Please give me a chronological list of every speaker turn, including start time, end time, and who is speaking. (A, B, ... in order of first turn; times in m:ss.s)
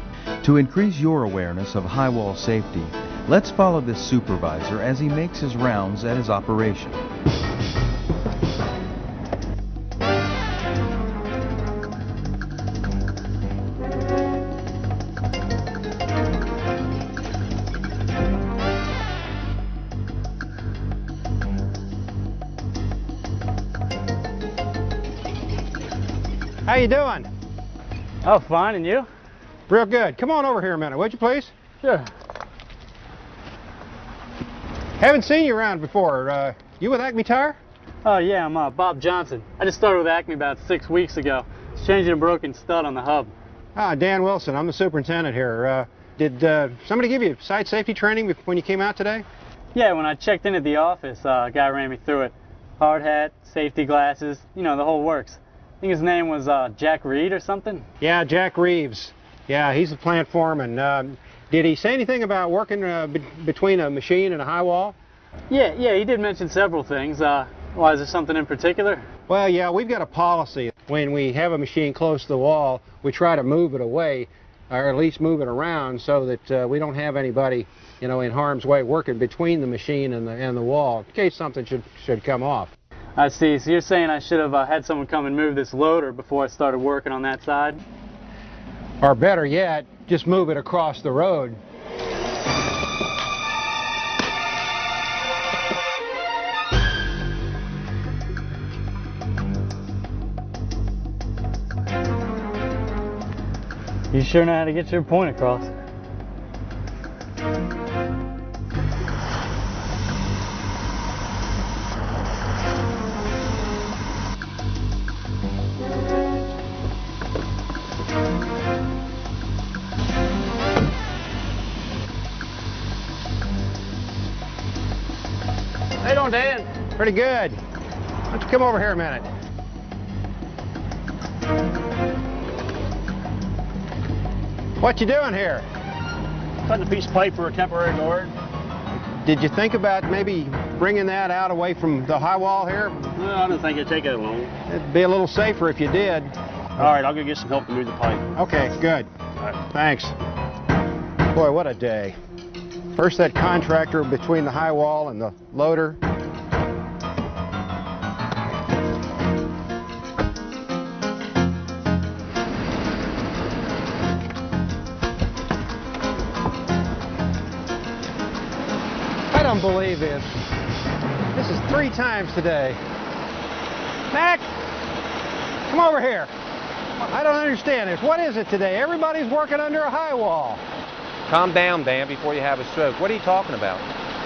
0:00.4-0:07.0 A
0:26.6-0:27.3 B
0:28.2-0:29.1 C
0:29.7-0:31.5 B
0:31.8-0:32.1 C
0:35.0-0:37.6 B
0:38.0-0:43.3 C
0:43.8-0:49.2 B
0:49.8-0:57.8 C
0:58.0-1:05.0 B
1:05.5-1:09.0 C
1:09.3-1:22.7 B
1:23.2-1:27.8 C
1:29.0-1:31.6 B
1:44.1-1:45.7 C
2:06.0-2:06.7 D
2:07.0-2:07.6 B
2:08.3-2:09.3 B
2:14.8-2:15.7 B
2:16.6-2:18.3 D
2:19.1-2:23.0 B
2:23.1-2:24.5 D
2:24.7-2:26.3 B
2:26.8-2:28.3 D
2:28.4-2:30.2 B
2:31.3-2:32.2 B
2:32.9-2:36.0 B
2:49.3-2:50.3 B
2:51.3-2:52.8 B
2:54.1-2:54.5 B
2:55.7-2:56.3 B
2:57.0-3:00.6 B
3:01.3-3:03.8 E